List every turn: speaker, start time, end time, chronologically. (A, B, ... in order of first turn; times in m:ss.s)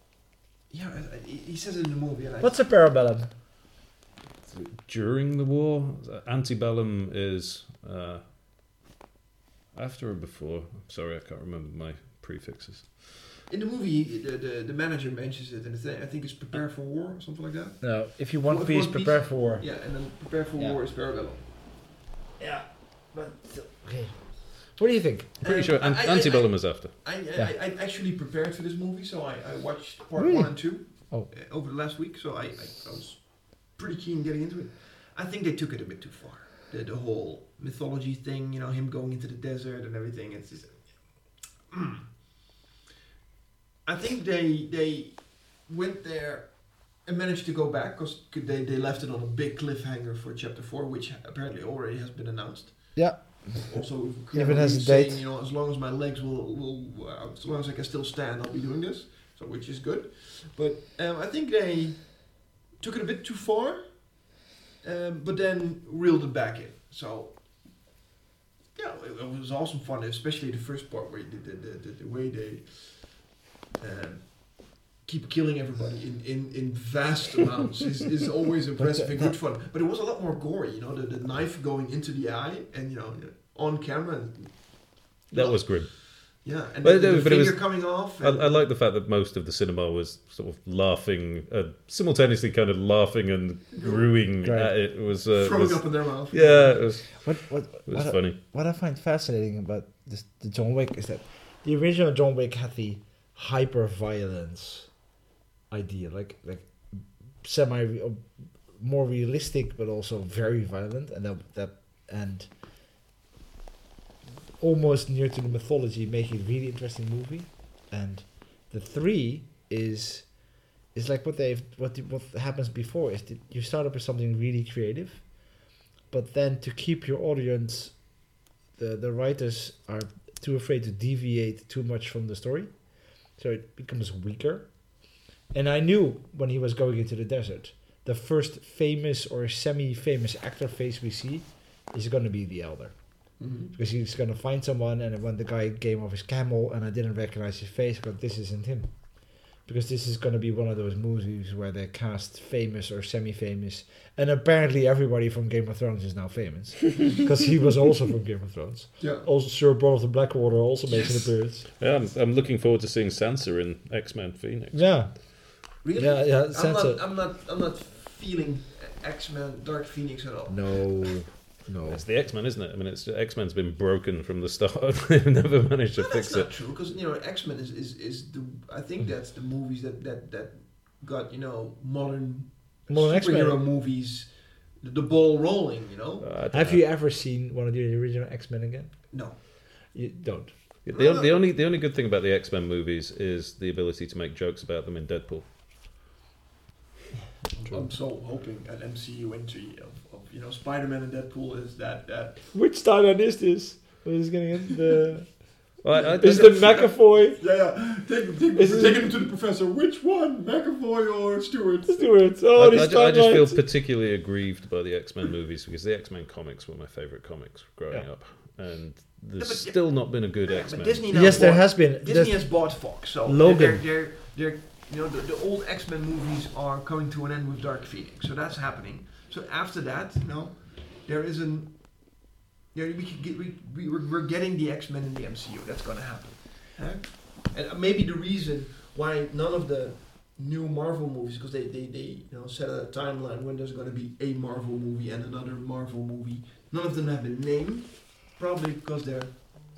0:00.7-0:02.6 A
0:02.4-0:03.3 B
0:04.5-0:08.2 C
0:09.7-0:13.4 C
0:13.5-0:17.8 A
0:17.8-0:19.6 B
0:18.4-0:21.4 A
0:22.4-0:25.3 B
0:25.4-0:40.8 A
0:25.4-0:26.9 C
0:30.2-0:31.3 B
0:41.7-0:42.1 A
0:43.8-0:53.0 A
0:53.0-0:53.7 B
0:53.6-1:04.0 A
0:54.3-0:55.2 B
1:04.8-1:07.4 A
1:08.7-1:13.2 A
1:13.8-1:24.5 A
1:18.8-1:19.3 B
1:25.3-1:26.2 C
1:25.3-1:28.6 A
1:26.8-1:37.3 C
1:33.8-1:34.1 A
1:34.4-1:34.7 B
1:35.3-1:36.8 A
1:37.2-1:44.9 B
1:37.8-1:38.4 C
1:45.7-1:52.5 B
1:54.6-2:00.3 B
2:00.9-2:05.2 B
2:06.1-2:08.0 B
2:08.8-2:12.7 B
2:13.4-2:14.7 B
2:15.5-2:23.0 B
2:23.4-2:23.7 A
2:23.7-2:28.9 B
2:29.6-2:41.6 B
2:39.0-2:39.3 A
2:40.9-2:41.3 A
2:41.8-2:44.8 C
2:44.7-2:45.2 B
2:45.7-2:47.0 B
2:45.8-2:51.1 A
2:50.5-2:52.0 B
2:51.9-2:56.5 C
2:56.0-3:04.3 A
3:02.9-3:03.6 B
3:04.8-3:06.3 A
3:06.2-3:06.8 C
3:06.5-3:08.9 B
3:09.1-3:09.4 A
3:09.9-3:10.5 B
3:10.8-3:15.4 C
3:10.9-3:11.4 A
3:17.6-3:22.4 A
3:22.5-3:25.3 B
3:25.8-3:26.9 C
3:25.9-3:32.0 A
3:26.2-3:27.4 B
3:28.6-3:29.0 B
3:31.9-3:33.6 B
3:32.6-3:41.5 C
3:39.4-3:51.8 A
3:41.1-3:42.7 B
3:43.2-3:43.8 B
3:52.7-4:09.5 A